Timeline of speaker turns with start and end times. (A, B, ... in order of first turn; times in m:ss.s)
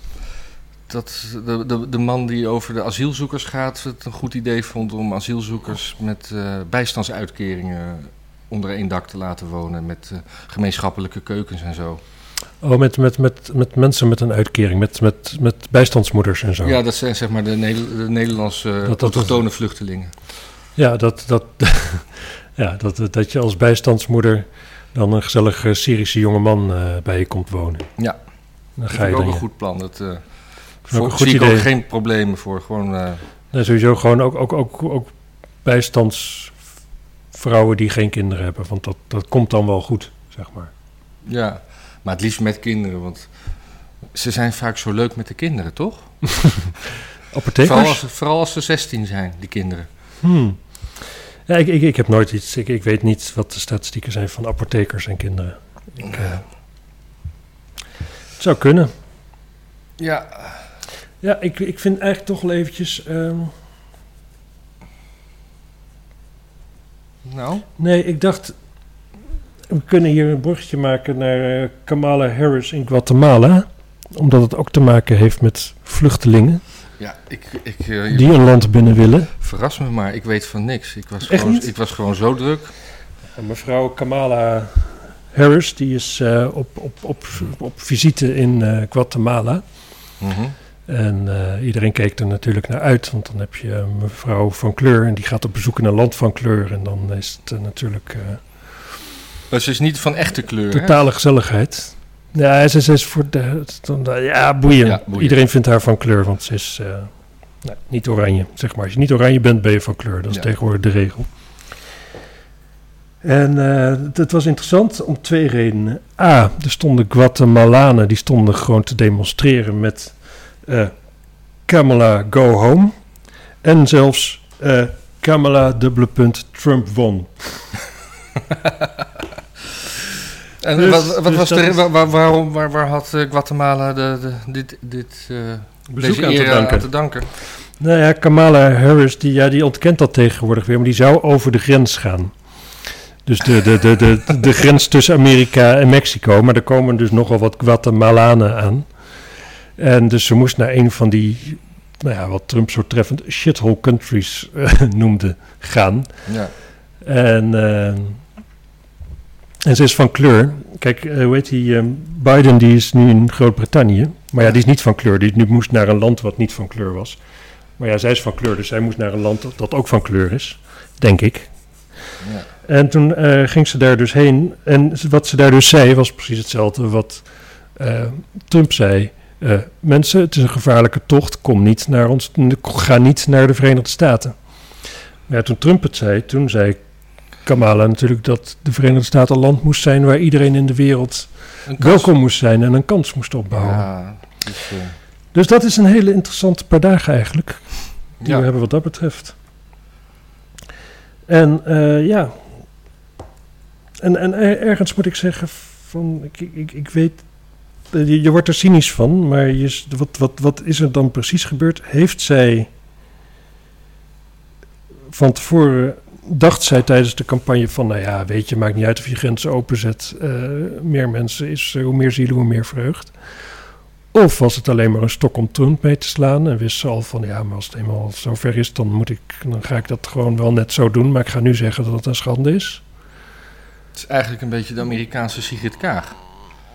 0:00.9-0:12.0 A
0:12.6-0:16.8 B
0:16.6-0:20.1 A
0:18.8-0:19.4 B
0:20.8-0:27.9 B
0:28.8-0:29.4 B
0:28.9-0:30.2 A
0:30.9-0:31.7 B
0:30.9-0:33.2 A
0:33.5-0:35.1 B
0:35.6-0:36.6 B
0:37.3-0:40.7 B
0:41.2-0:43.3 A
0:44.1-0:46.1 A
0:46.3-0:46.7 B
0:47.3-0:48.0 B
0:47.6-0:49.9 A
0:50.2-0:50.6 B
0:51.5-0:56.4 B
0:56.0-0:56.4 A
0:58.4-0:58.9 B
1:00.0-1:00.6 A
1:01.2-1:03.5 B
1:07.3-1:07.7 A
1:07.8-1:08.5 B
1:09.7-1:16.6 B
1:17.0-1:18.5 A
1:18.1-1:19.3 B
1:19.4-1:22.7 A
1:21.3-1:21.7 B
1:23.4-1:29.6 B
1:30.2-1:30.5 A
1:30.9-1:38.4 B
1:39.5-1:41.0 A
1:40.7-1:47.1 B
1:44.8-1:45.4 A
1:47.6-1:51.3 B
1:53.2-2:00.9 B
2:01.7-2:02.9 B
2:03.6-2:07.6 B
2:10.6-2:17.3 A
2:10.8-2:11.8 B
2:15.9-2:16.9 B
2:17.8-2:22.3 B
2:23.2-2:28.9 B
2:29.8-2:36.1 B
2:36.3-2:36.5 A
2:37.0-2:38.2 B
2:39.6-2:47.2 B
2:47.8-2:51.5 B
2:52.2-2:52.5 A
2:52.6-2:57.2 B
2:57.8-3:04.4 B
3:05.3-3:06.8 B
3:07.5-3:13.9 B
3:11.7-3:12.1 A
3:13.5-3:15.0 A
3:15.3-3:17.6 B
3:18.2-3:18.5 A
3:18.2-3:19.4 B
3:21.3-3:22.4 B
3:24.0-3:27.2 B
3:27.9-3:32.7 B
3:35.1-3:43.1 B
3:44.1-3:52.8 B
3:54.0-3:56.2 A